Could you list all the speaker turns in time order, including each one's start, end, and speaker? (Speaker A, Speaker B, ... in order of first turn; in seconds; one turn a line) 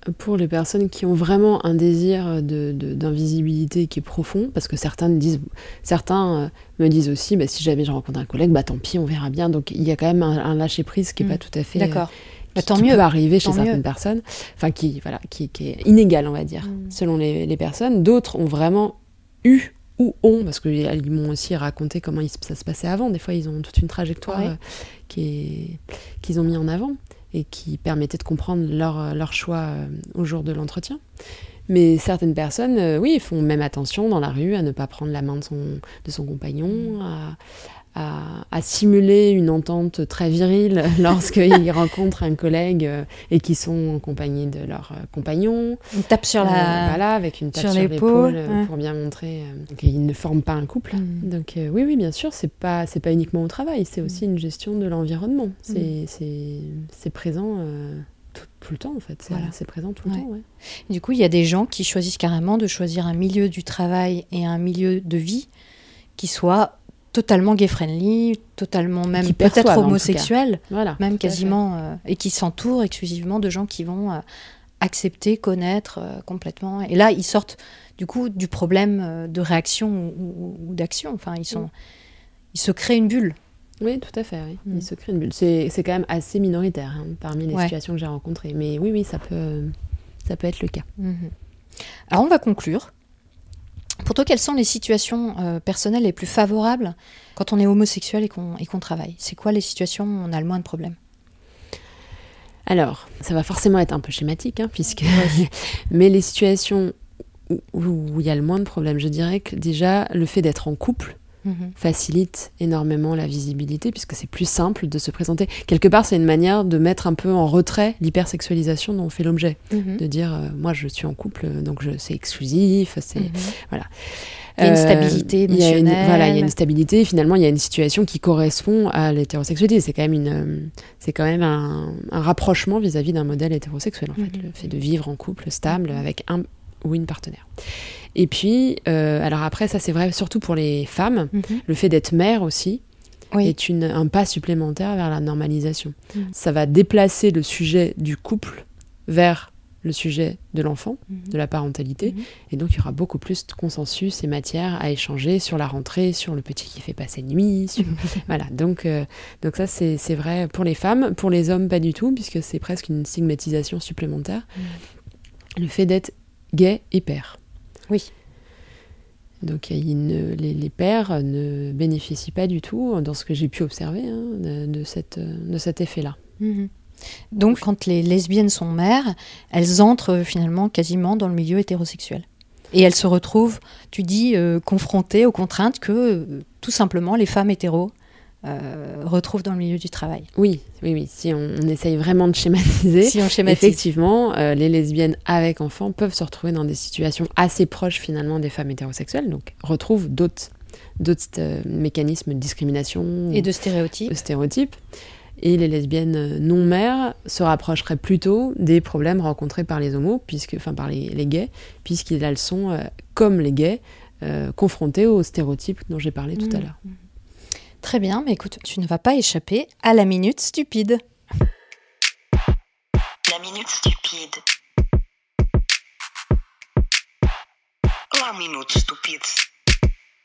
Speaker A: 0.1-31.0
Speaker B: 11.2-13.8
Speaker B: 16.6-16.9
Speaker B: 24.3-24.5
Speaker A: 31.7-37.4
Speaker A: 37.9-45.8
Speaker B: 45.9-47.0
Speaker A: 46.4-60.4
Speaker B: 47.5-48.7
Speaker B: 50.9-51.3
Speaker B: 60.9-65.5
Speaker B: 66.2-74.2
Speaker A: 69.2-71.5
Speaker B: 74.8-81.7
Speaker B: 82.5-83.4
Speaker A: 83.8-90.9
Speaker B: 91.0-91.3
Speaker B: 92.1-92.9
Speaker B: 94.0-101.0
Speaker A: 102.7-106.9
Speaker B: 105.1-105.5
Speaker A: 107.5-111.2
Speaker B: 111.4-111.7
Speaker A: 111.8-142.8
Speaker B: 119.7-120.0
Speaker B: 123.2-123.5
Speaker B: 124.6-126.5
Speaker B: 134.2-134.4
Speaker B: 141.3-141.6
Speaker A: 143.4-164.5
Speaker A: 165.6-167.4
Speaker A: 169.4-176.2
Speaker B: 176.4-176.7
Speaker B: 177.3-187.9
Speaker B: 188.4-190.3
Speaker A: 190.3-203.5
Speaker B: 193.0-193.8
Speaker B: 203.3-204.1
Speaker A: 204.1-204.8
Speaker A: 205.4-216.8
Speaker B: 216.4-216.7
Speaker B: 217.8-221.0
Speaker C: 223.3-224.4
Speaker C: 228.1-229.4